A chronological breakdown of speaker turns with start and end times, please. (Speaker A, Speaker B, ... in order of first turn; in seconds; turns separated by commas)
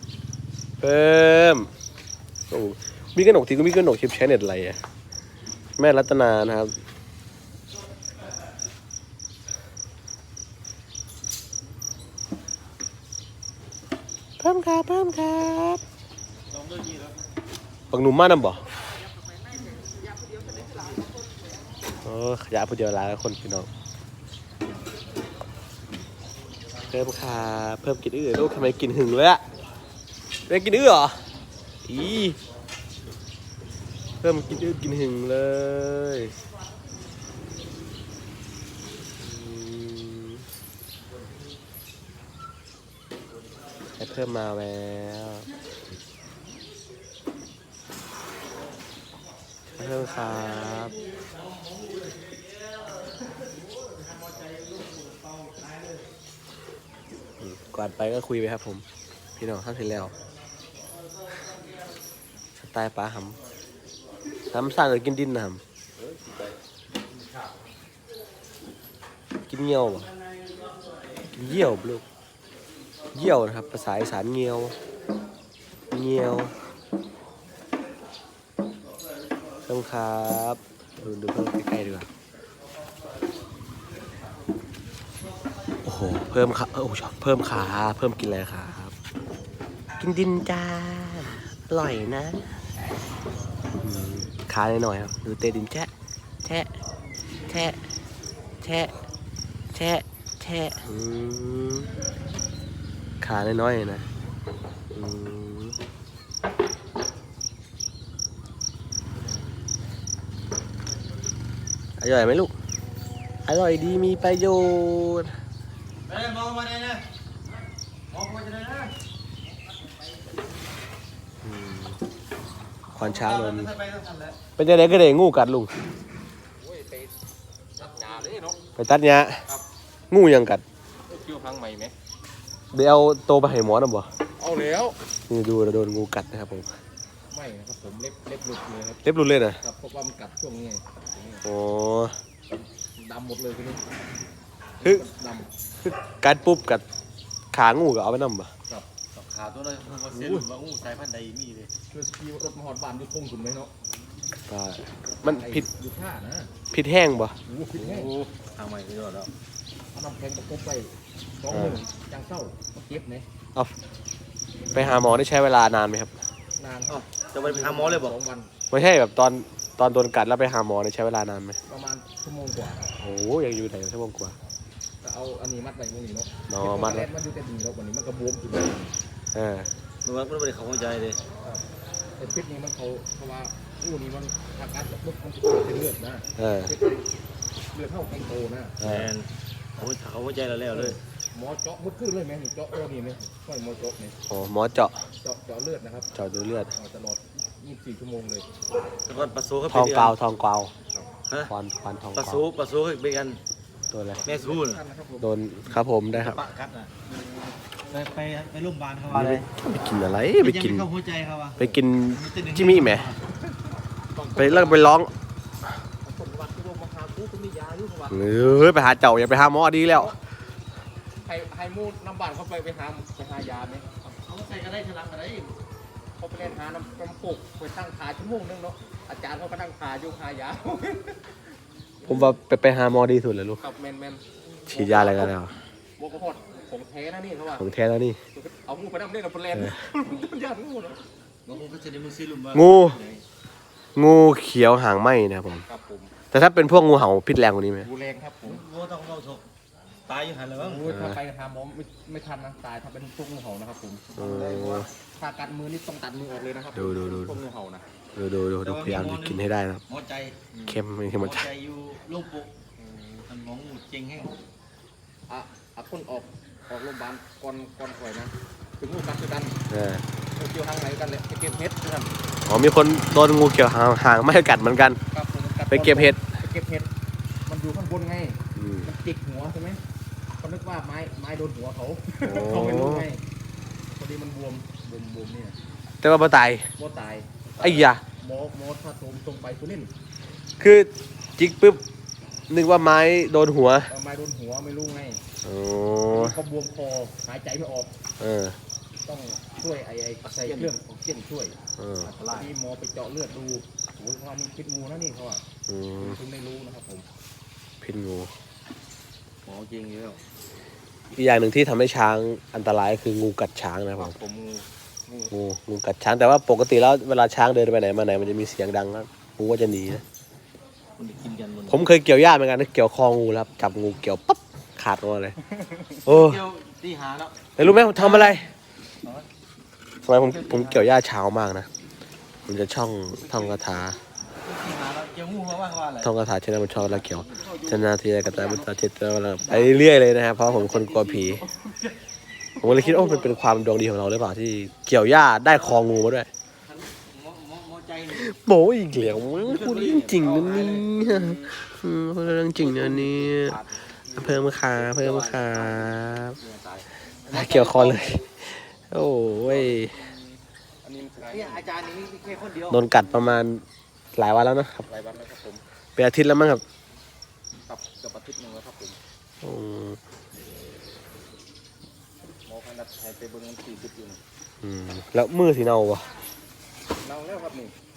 Speaker A: 0.8-1.7, Speaker A: 2.5-4.8, Speaker A: 5.8-6.7, Speaker A: 14.4-15.8, Speaker B: 16.5-17.1, Speaker A: 17.9-18.6, Speaker B: 20.3-21.1, Speaker A: 22.0-23.7, Speaker A: 26.9-29.4, Speaker A: 30.5-31.2, Speaker A: 31.9-32.4, Speaker A: 34.2-36.4, Speaker A: 39.2-40.4, Speaker A: 44.0-45.5, Speaker A: 49.7-51.0, Speaker B: 49.8-52.4, Speaker B: 53.8-56.0, Speaker A: 57.4-58.9, Speaker A: 59.4-60.1, Speaker A: 62.6-63.4, Speaker A: 64.5-65.6, Speaker B: 66.0-66.4, Speaker A: 69.5-70.1, Speaker A: 71.3-72.0, Speaker A: 73.1-74.8, Speaker A: 75.9-76.5, Speaker A: 79.7-82.1, Speaker A: 85.8-88.9, Speaker A: 90.0-92.5, Speaker A: 93.8-95.9, Speaker A: 96.4-96.7, Speaker A: 97.5-97.8, Speaker A: 98.6-98.9, Speaker A: 99.7-101.9, Speaker A: 103.2-104.1, Speaker A: 104.9-105.8, Speaker A: 112.0-112.5, Speaker A: 113.5-115.3, Speaker B: 116.1-117.0, Speaker B: 118.1-119.0, Speaker A: 121.4-122.0, Speaker A: 122.9-123.7, Speaker B: 123.0-124.4, Speaker A: 124.6-125.7, Speaker C: 126.6-127.2, Speaker C: 127.8-128.6, Speaker A: 128.8-129.4, Speaker A: 130.1-130.6, Speaker C: 131.1-131.9, Speaker A: 132.7-134.1, Speaker C: 134.4-135.0, Speaker A: 135.3-136.7, Speaker C: 137.3-139.0, Speaker A: 139.1-139.6, Speaker C: 139.6-141.4, Speaker A: 141.4-142.1, Speaker C: 142.5-143.8, Speaker C: 144.8-145.5, Speaker A: 145.8-146.8, Speaker A: 147.5-148.5, Speaker B: 149.1-151.7, Speaker C: 150.1-150.4, Speaker C: 151.9-153.7, Speaker A: 154.5-155.7, Speaker C: 155.2-156.5, Speaker A: 156.7-157.4, Speaker C: 157.5-158.1, Speaker B: 157.8-159.3, Speaker C: 159.9-163.3, Speaker A: 161.5-161.8, Speaker A: 164.7-166.1, Speaker C: 166.6-168.5, Speaker B: 166.9-168.2, Speaker A: 168.7-171.6, Speaker C: 171.7-172.9, Speaker A: 173.0-174.3, Speaker C: 175.0-179.0, Speaker A: 176.5-177.1, Speaker A: 179.3-179.7, Speaker B: 180.1-181.2, Speaker C: 182.2-187.1, Speaker A: 186.4-186.7, Speaker C: 187.7-188.8, Speaker A: 188.8-189.1, Speaker B: 188.8-191.0, Speaker C: 190.7-194.2, Speaker A: 194.3-195.0, Speaker C: 195.2-196.2, Speaker A: 196.2-196.7, Speaker C: 196.7-198.5, Speaker B: 199.1-200.2, Speaker A: 199.7-200.7, Speaker A: 201.5-202.4, Speaker B: 202.2-203.4, Speaker A: 203.9-204.2, Speaker C: 204.2-205.3, Speaker B: 204.2-204.8, Speaker A: 205.2-206.4, Speaker B: 206.1-206.9, Speaker B: 207.9-209.5, Speaker A: 209.1-210.9, Speaker B: 210.4-213.2, Speaker A: 211.6-213.1, Speaker C: 214.1-214.9, Speaker A: 214.4-215.1, Speaker C: 216.0-218.3, Speaker A: 218.1-220.2, Speaker C: 221.2-223.9, Speaker B: 224.0-225.6, Speaker C: 226.2-231.2, Speaker C: 232.0-232.3, Speaker A: 232.1-233.6, Speaker C: 233.6-235.4, Speaker A: 234.7-235.5, Speaker C: 236.0-237.7, Speaker A: 237.6-238.2, Speaker C: 238.3-241.0, Speaker A: 239.5-239.8, Speaker B: 241.5-243.2, Speaker A: 242.5-243.0, Speaker A: 244.0-245.6, Speaker C: 245.7-246.2, Speaker A: 246.3-247.9, Speaker C: 247.8-248.6, Speaker B: 248.4-249.5, Speaker B: 250.1-250.8, Speaker C: 250.6-254.2, Speaker A: 250.9-251.2, Speaker B: 254.2-254.9, Speaker A: 254.2-254.9, Speaker C: 255.2-257.8, Speaker A: 256.7-257.4, Speaker A: 258.2-259.8, Speaker B: 258.6-262.5, Speaker A: 260.7-261.5, Speaker C: 262.8-263.3, Speaker B: 263.3-264.4, Speaker C: 265.3-269.6, Speaker A: 269.7-270.1, Speaker C: 270.4-272.1, Speaker A: 272.5-275.0, Speaker C: 275.1-276.9, Speaker A: 275.7-276.2, Speaker C: 277.5-279.8, Speaker A: 278.6-278.9, Speaker C: 280.4-283.2, Speaker A: 282.2-283.1, Speaker C: 283.9-285.6, Speaker A: 286.0-286.7, Speaker C: 286.8-289.9, Speaker A: 287.6-288.0, Speaker A: 290.6-291.8, Speaker A: 292.5-293.9, Speaker C: 293.9-295.2, Speaker A: 295.4-296.4, Speaker C: 296.1-297.9, Speaker A: 298.2-298.6, Speaker C: 299.1-301.6, Speaker B: 300.2-300.7, Speaker A: 301.8-302.1, Speaker B: 302.0-302.5, Speaker C: 302.3-305.4, Speaker A: 305.7-306.2, Speaker C: 306.0-307.1, Speaker A: 307.8-308.3, Speaker B: 309.5-310.2, Speaker A: 311.1-314.1, Speaker C: 314.0-315.3, Speaker A: 315.3-320.0, Speaker B: 321.0-321.9, Speaker A: 321.7-325.4, Speaker C: 325.5-326.0, Speaker A: 326.1-326.4, Speaker B: 326.1-327.4, Speaker A: 327.6-328.5, Speaker B: 327.9-328.5, Speaker A: 330.0-331.7, Speaker B: 330.1-330.9, Speaker A: 332.5-334.0, Speaker B: 333.2-333.6, Speaker B: 334.4-336.1, Speaker A: 336.0-341.4, Speaker B: 337.0-337.6, Speaker C: 337.3-337.7, Speaker B: 339.4-339.8, Speaker B: 340.4-341.9, Speaker B: 342.6-343.4, Speaker A: 342.6-346.3, Speaker B: 345.5-346.0, Speaker B: 346.7-348.3, Speaker A: 348.1-356.4, Speaker B: 349.2-351.4, Speaker C: 352.6-353.9, Speaker B: 354.4-356.9, Speaker C: 357.3-358.2, Speaker A: 357.3-360.0, Speaker C: 359.5-361.7, Speaker B: 361.3-362.9, Speaker A: 362.7-364.9, Speaker C: 364.9-365.6, Speaker A: 366.0-366.6, Speaker C: 367.7-369.0, Speaker A: 369.4-370.0, Speaker C: 372.5-374.2, Speaker A: 374.6-376.1, Speaker C: 377.0-377.7